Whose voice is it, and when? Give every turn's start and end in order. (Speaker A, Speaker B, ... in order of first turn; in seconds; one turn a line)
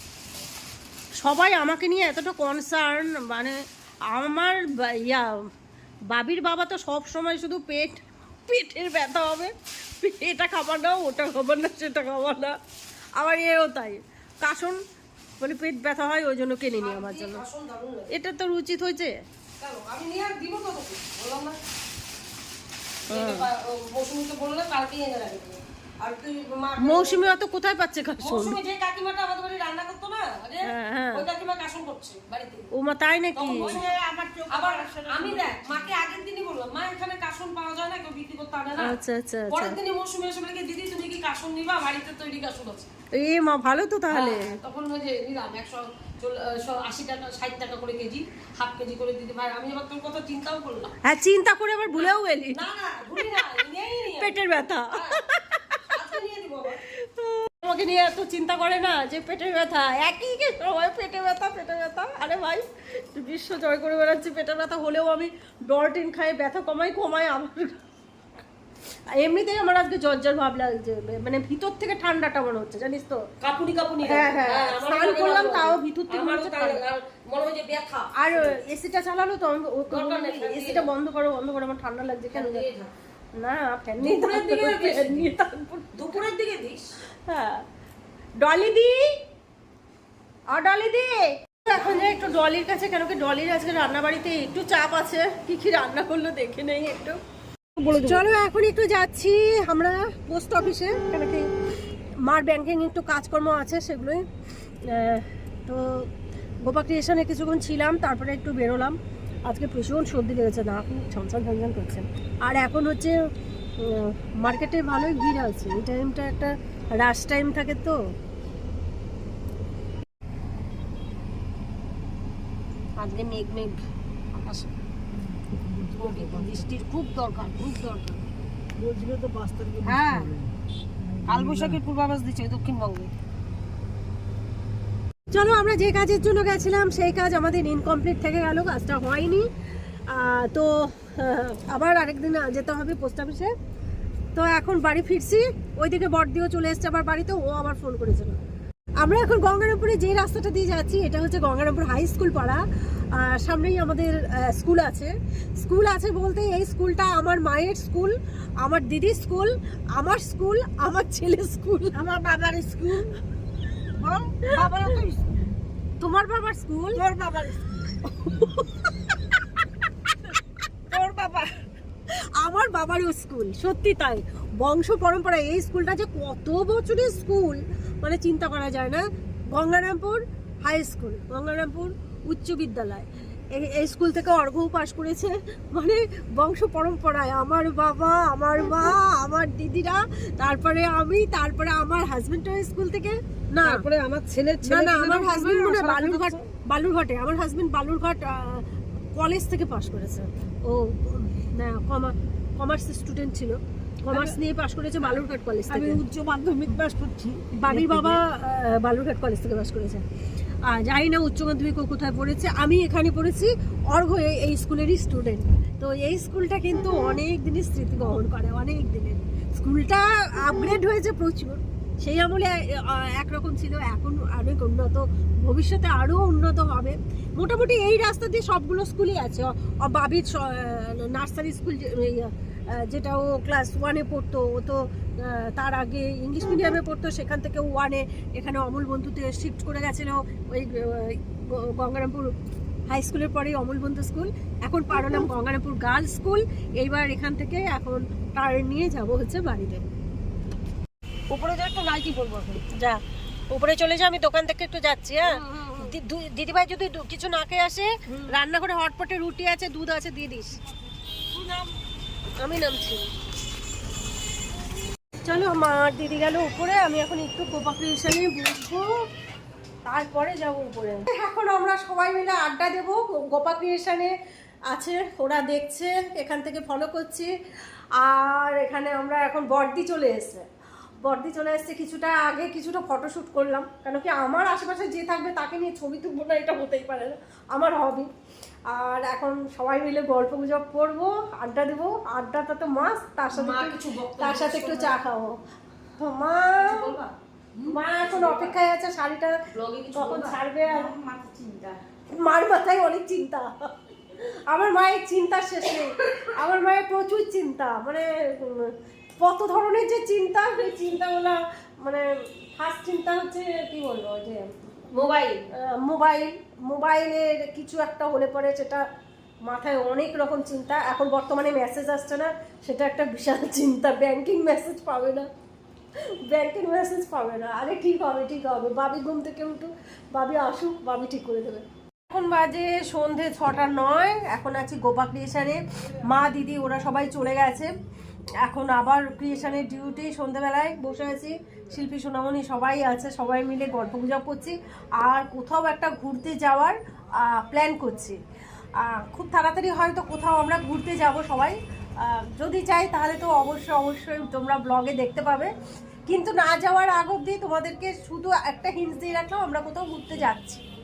Speaker A: 1.2-3.6
Speaker A: 4.1-5.5
Speaker A: 6.1-12.6
Speaker A: 13.2-14.8
Speaker A: 15.4-17.4
Speaker B: 16.7-18.1
Speaker A: 18.1-19.1
Speaker B: 19.6-21.6
Speaker B: 23.1-27.4
Speaker A: 23.1-23.5
Speaker A: 26.8-28.6
Speaker B: 28.2-32.7
Speaker A: 30.6-31.3
Speaker A: 32.7-33.8
Speaker B: 33.4-39.0
Speaker C: 33.8-35.9
Speaker A: 38.8-39.8
Speaker B: 39.5-42.9
Speaker A: 43.2-44.6
Speaker B: 44.1-51.0
Speaker A: 51.0-52.6
Speaker B: 51.9-54.4
Speaker A: 54.2-56.0
Speaker B: 54.9-55.2
Speaker B: 55.9-56.8
Speaker A: 57.0-67.8
Speaker A: 69.1-73.2
Speaker B: 73.4-78.6
Speaker A: 74.0-76.8
Speaker A: 78.2-82.7
Speaker B: 79.9-80.9
Speaker B: 82.3-82.9
Speaker A: 83.4-86.2
Speaker B: 84.0-85.3
Speaker B: 86.0-86.9
Speaker A: 87.3-87.6
Speaker A: 88.4-89.1
Speaker A: 90.5-97.2
Speaker B: 97.8-98.3
Speaker A: 98.0-101.5
Speaker A: 102.3-104.2
Speaker A: 104.9-106.1
Speaker A: 106.7-113.2
Speaker A: 113.8-118.0
Speaker B: 123.0-124.7
Speaker C: 125.3-126.6
Speaker B: 126.0-128.2
Speaker C: 128.8-131.8
Speaker B: 129.8-130.4
Speaker B: 131.3-133.1
Speaker A: 135.3-139.5
Speaker A: 140.1-143.5
Speaker A: 144.3-148.4
Speaker A: 149.0-152.6
Speaker A: 153.1-162.0
Speaker C: 161.9-163.2
Speaker C: 164.0-165.4
Speaker A: 166.0-167.0
Speaker C: 166.9-168.1
Speaker A: 168.3-168.7
Speaker C: 170.9-171.5
Speaker A: 172.3-193.8
Speaker B: 193.6-195.0
Speaker C: 194.3-196.4
Speaker A: 194.6-206.0
Speaker C: 204.1-204.4
Speaker C: 205.7-208.2
Speaker A: 207.6-210.0
Speaker A: 210.7-242.3
Speaker A: 242.9-249.8
Speaker B: 251.3-252.6
Speaker A: 252.7-253.0
Speaker A: 253.5-260.6
Speaker B: 255.2-255.9
Speaker B: 261.3-261.7
Speaker A: 262.4-263.0
Speaker A: 265.2-268.9
Speaker A: 269.9-274.1
Speaker A: 274.7-277.3
Speaker A: 278.0-280.4
Speaker A: 281.0-288.1
Speaker A: 288.7-295.4
Speaker B: 293.3-295.0
Speaker A: 296.0-296.9
Speaker B: 296.6-298.6
Speaker A: 297.7-299.4
Speaker B: 299.5-301.8
Speaker A: 299.9-300.9
Speaker A: 302.1-314.5
Speaker B: 314.9-315.5
Speaker A: 315.5-318.9
Speaker A: 319.5-325.3
Speaker A: 326.2-337.7
Speaker A: 338.4-348.2
Speaker A: 348.8-355.5
Speaker A: 356.1-360.6